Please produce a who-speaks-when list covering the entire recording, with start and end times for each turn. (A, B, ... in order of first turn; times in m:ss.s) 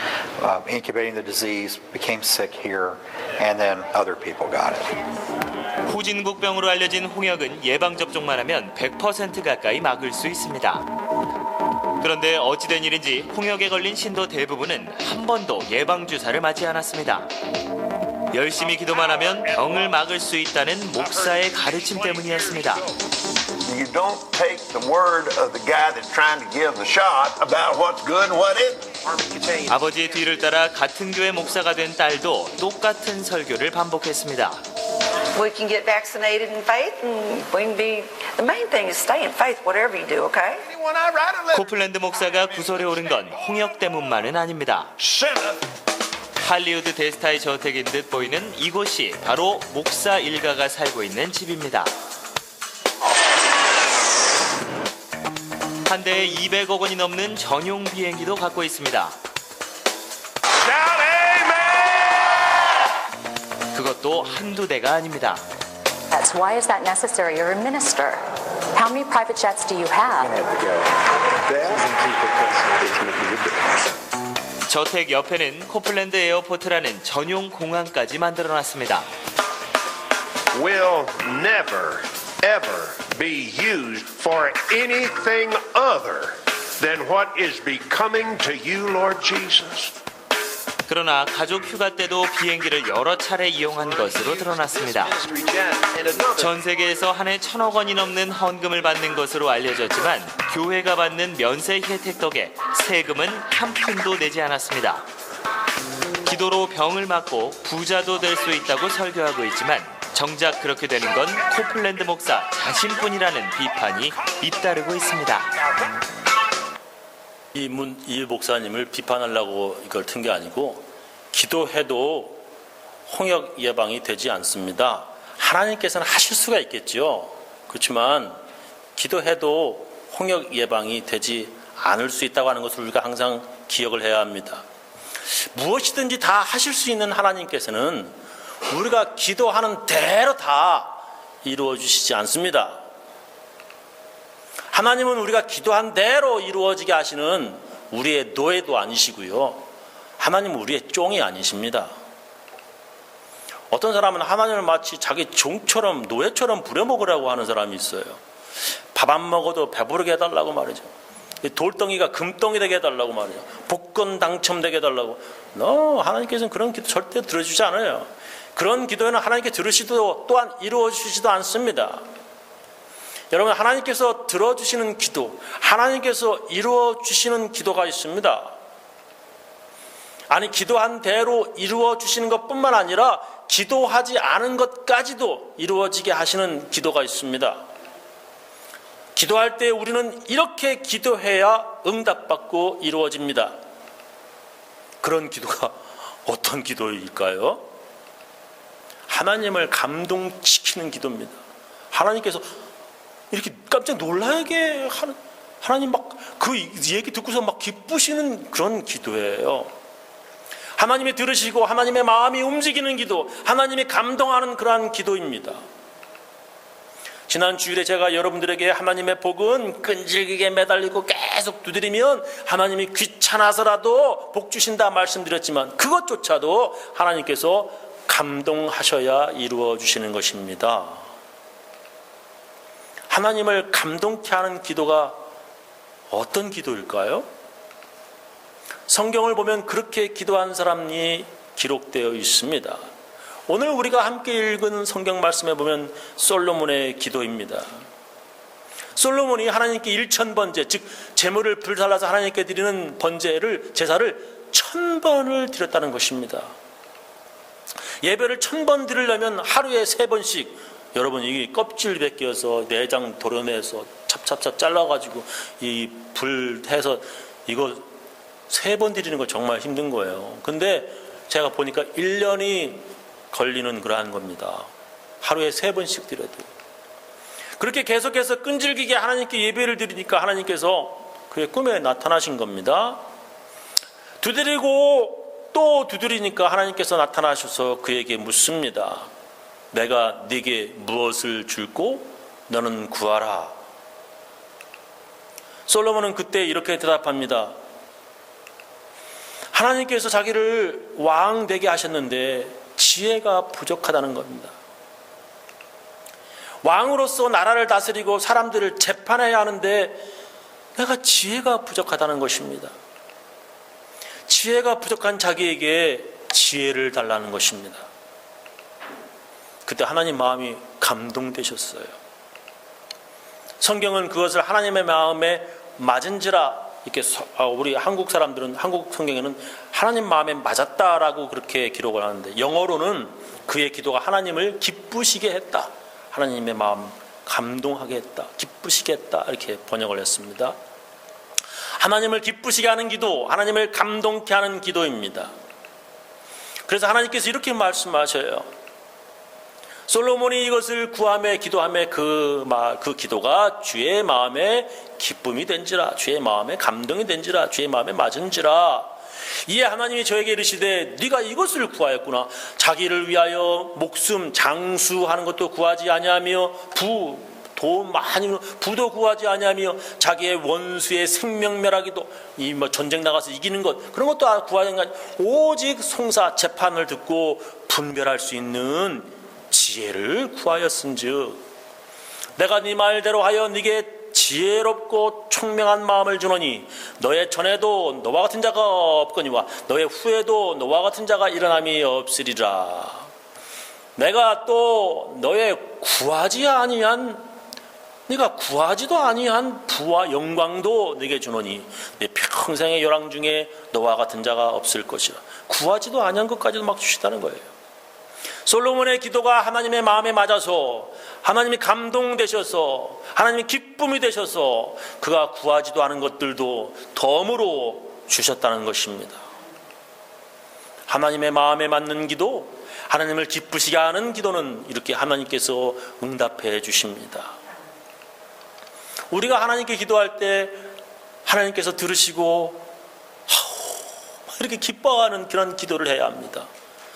0:00.4-0:04.9 A
0:05.8-0:10.9 B
0:12.0-0:17.3 B
0:18.3-0:22.8 B
0:18.9-0:20.0 C
0:20.9-0:22.9 C
0:23.6-0:29.0 D
0:29.0-0:30.2 C
0:29.7-0:34.6 B
0:35.3-0:40.7 E
0:40.7-0:41.7 C
0:41.5-0:44.9 B
0:45.0-0:45.6 C
0:46.4-0:51.9 B
0:55.8-0:59.1 B
1:00.6-1:02.2 C
1:03.7-1:05.4 B
1:06.1-1:10.3 F
1:10.2-1:10.9 A
1:11.4-1:13.6 A
1:14.7-1:19.1 B
1:20.5-1:29.9 C
1:30.9-1:35.1 B
1:33.9-1:36.5 C
1:36.4-1:45.0 B
1:46.2-1:55.5 B
1:57.5-2:02.4 G
2:03.1-2:08.4 G
2:09.0-2:14.6 G
2:15.5-2:18.1 G
2:18.7-2:22.8 G
2:24.7-2:29.6 G
2:30.2-2:31.9 G
2:33.7-2:38.2 G
2:38.9-2:40.9 G
2:41.4-2:52.0 G
2:53.3-2:58.5 G
3:00.3-3:07.6 G
3:09.1-3:13.5 G
3:15.0-3:17.6 G
3:19.1-3:21.4 G
3:21.9-3:22.5 G
3:23.3-3:29.7 G
3:30.8-3:35.6 G
3:37.3-3:51.1 G
3:53.1-3:55.2 G
3:56.1-3:57.3 G
3:58.9-4:02.8 G
4:03.5-4:07.8 G
4:09.0-4:16.5 G
4:18.0-4:27.9 G
4:28.5-4:34.7 G
4:35.2-4:36.5 G
4:37.6-4:43.0 G
4:44.2-4:49.1 G
4:49.7-4:53.5 G
4:55.7-4:57.5 G
4:59.5-5:04.5 G
5:06.6-5:10.1 G
5:10.8-5:12.7 G
5:14.3-5:17.8 G
5:19.6-5:21.9 G
5:23.6-5:40.6 G
5:41.8-5:45.3 G
5:46.7-5:48.5 G
5:49.9-5:58.9 G
5:59.5-6:21.4 G
6:22.4-6:33.1 G
6:34.0-6:37.2 G
6:38.1-6:47.5 G
6:48.4-6:59.2 G
7:00.9-7:07.3 G
7:09.1-7:10.7 G
7:11.2-7:12.7 G
7:13.3-7:16.5 G